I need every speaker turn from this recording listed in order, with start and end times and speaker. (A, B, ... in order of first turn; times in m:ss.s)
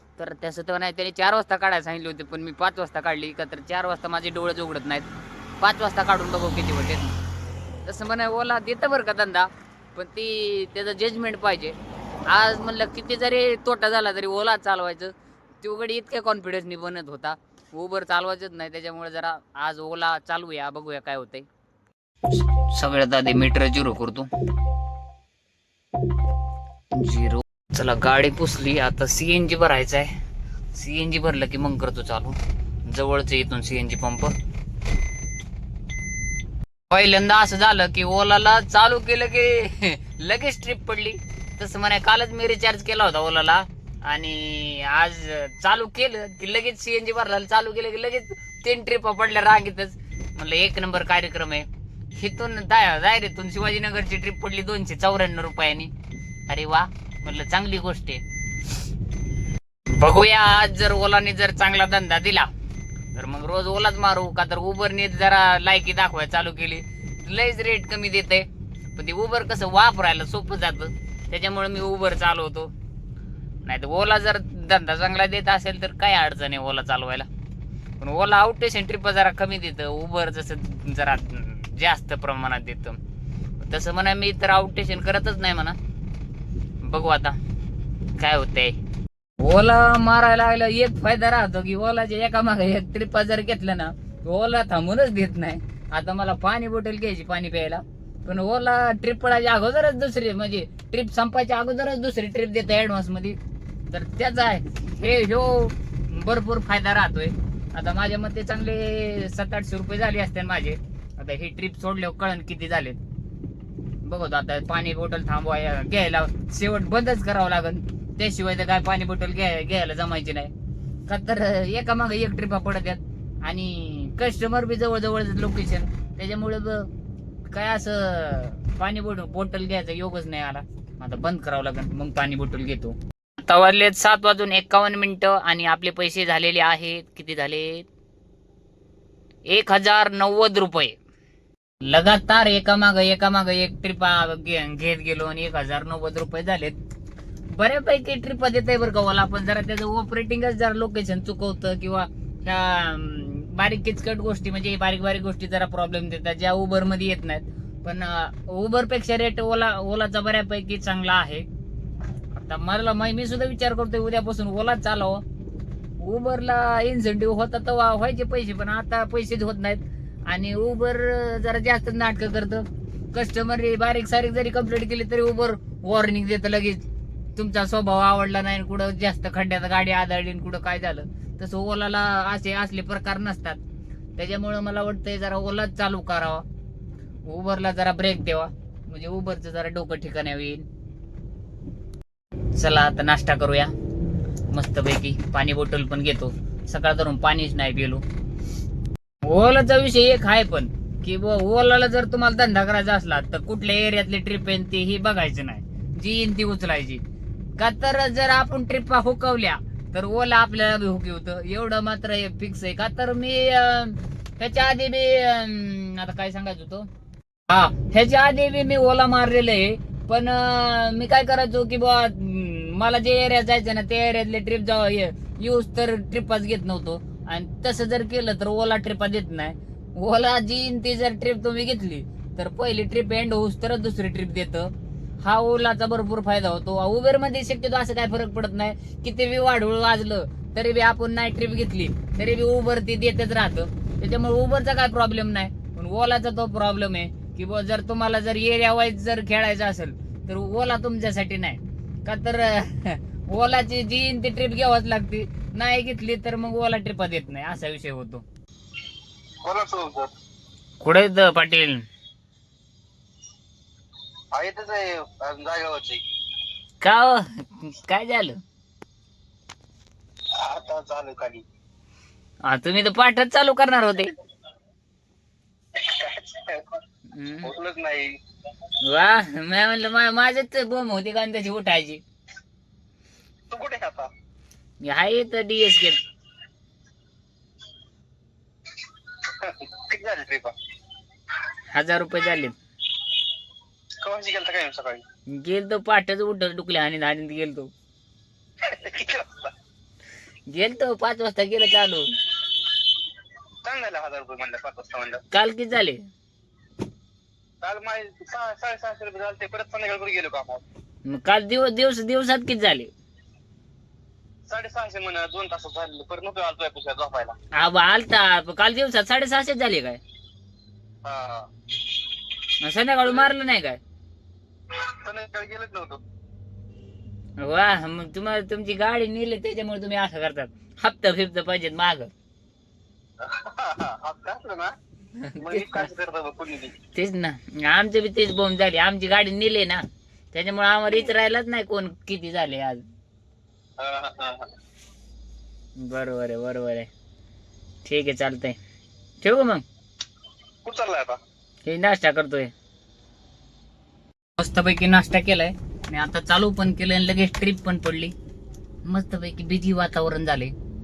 0:00.2-0:05.1 A
0:05.6-0:07.2 A
0:07.8-0:11.8 A
0:12.3-0:21.5 A
0:22.3-0:24.3 A
0:26.9-0:30.1 A
0:30.8-0:34.3 A
0:36.9-0:55.9 A
0:56.5-0:58.2 A
0:59.9-1:02.5 A
1:03.1-1:12.7 A
1:13.6-1:17.3 A
1:18.0-1:23.0 A
1:23.6-1:25.8 A
1:26.8-1:27.4 A
1:28.2-1:28.8 A
1:29.4-1:43.4 A
1:43.9-1:53.0 A
1:54.0-2:00.5 A
2:01.1-2:06.9 A
2:07.5-2:17.9 A
2:19.5-2:21.0 A
2:21.8-2:26.8 A
2:27.5-2:41.5 A
2:42.3-2:45.2 A
2:46.0-2:56.8 A
2:57.4-3:03.6 A
3:04.2-3:06.5 A
3:07.2-3:10.7 A
3:12.6-3:13.7 A
3:14.5-3:18.0 A
3:19.2-3:27.0 A
3:27.6-3:36.9 A
3:37.5-4:18.2 A
4:19.4-4:20.1 B
4:20.8-4:21.8 A
4:24.3-4:26.0 B
4:26.8-4:28.4 A
4:30.4-4:31.4 B
4:32.5-4:34.1 A
4:35.8-4:36.7 B
4:37.1-4:37.5 A
4:37.4-4:38.1 B
4:38.8-4:42.0 A
4:43.5-4:44.1 B
4:44.8-4:46.0 A
4:49.2-4:50.5 B
4:51.7-4:52.6 A
4:54.0-4:55.0 B
4:55.3-4:57.7 A
4:58.6-4:59.5 B
5:00.5-5:02.1 A
5:03.6-5:05.2 B
5:05.3-5:06.0 A
5:07.6-5:10.6 B
5:11.1-5:12.9 A
5:14.5-5:17.4 B
5:17.5-5:20.0 A
5:21.0-5:21.5 B
5:22.6-5:23.8 A
5:24.7-5:26.0 B
5:27.4-5:32.1 A
5:33.2-5:34.7 B
5:35.2-5:35.9 A
5:35.4-5:36.8 B
5:37.0-5:42.8 A
5:43.8-5:44.5 B
5:45.8-5:46.9 A
5:47.8-5:48.6 A
5:49.2-5:49.6 A
5:50.6-5:51.2 B
5:51.7-5:52.5 A
5:54.4-5:58.1 A
5:58.8-6:00.5 A